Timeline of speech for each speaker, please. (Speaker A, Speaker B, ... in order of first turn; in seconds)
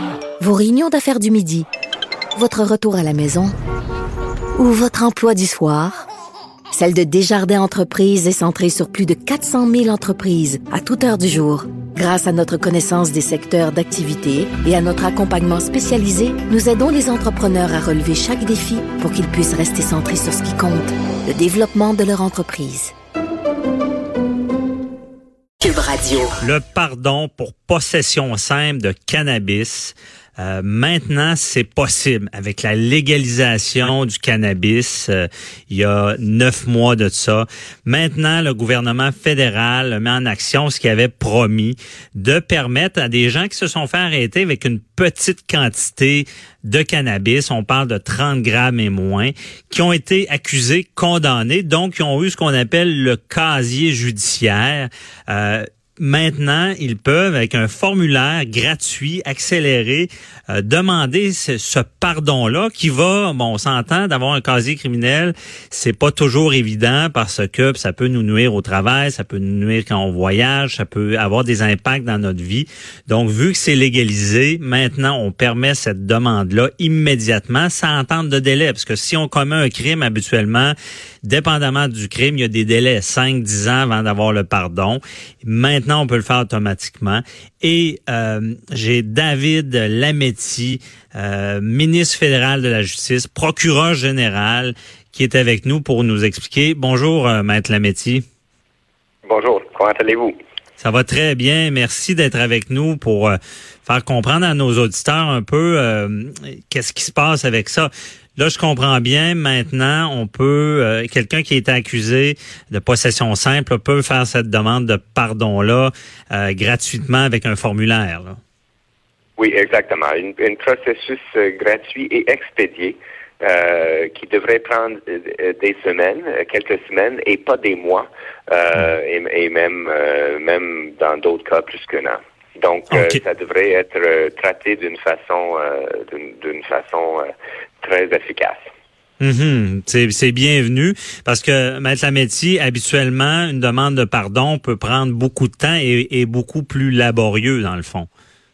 Speaker A: 0.4-1.7, 2.3-3.5, 4.6-6.1, 6.7-22.9, 25.6-26.4
Speaker B: 26.4-98.2, 100.8-118.4, 132.9-133.2, 139.2-148.1
Speaker C: 99.2-100.3, 119.4-137.3, 137.8-138.7